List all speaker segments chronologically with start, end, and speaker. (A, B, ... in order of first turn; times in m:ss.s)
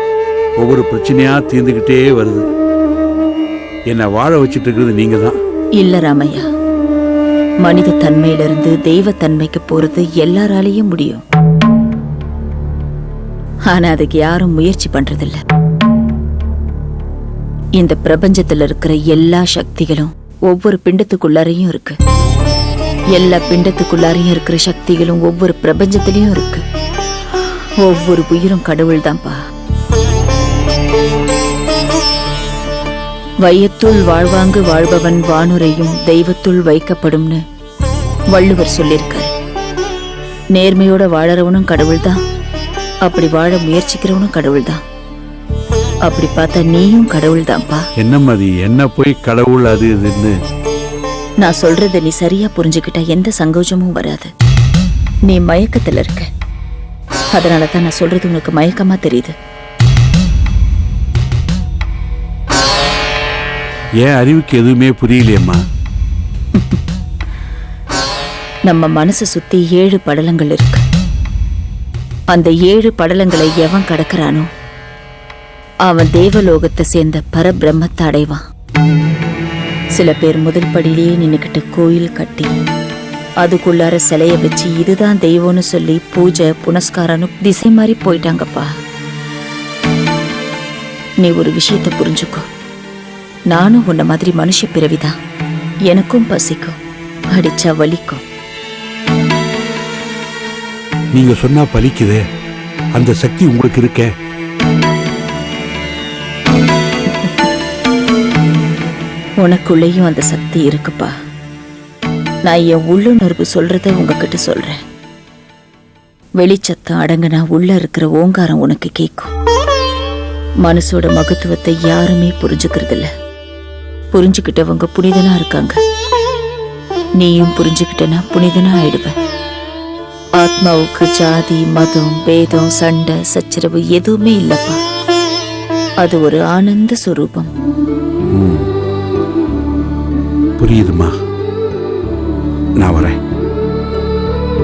0:00.6-0:02.5 A
0:03.9-0:05.4 A
0:05.8-0:06.5 B
0:07.6-0:11.2 B
0:13.7-0:15.4 B
0:17.8-0:22.0 B
0:23.1-0:26.6 B
0:27.3-0:29.4 B
0:33.4-0:37.4 B
0:38.3-0:39.3 B
0:40.5-0:42.2 B
0:43.0-0:44.8 B
0:46.0-0:47.8 B
0:48.0-0:50.4 A
0:51.4-0:54.3 B
0:55.2-0:56.3 B
0:57.3-0:59.3 B
1:04.0-1:05.6 A
1:06.5-1:06.8 B
1:08.6-1:10.8 B
1:12.3-1:14.5 B
1:15.8-1:18.4 B
1:19.9-1:22.5 B
1:23.4-1:28.7 B
1:31.2-1:32.4 B
1:33.5-1:35.1 B
1:35.9-1:36.8 B
1:37.3-1:38.2 B
1:41.1-1:42.2 A
1:42.9-1:44.1 A
1:49.4-1:51.1 B
1:52.4-1:54.8 B
1:56.4-1:59.3 B
2:00.6-2:03.1 B
2:04.1-2:05.8 B
2:07.2-2:09.1 B
2:10.4-2:14.8 B
2:16.0-2:17.5 B
2:18.3-2:18.7 A
2:20.6-2:21.1 A
2:22.8-2:23.2 A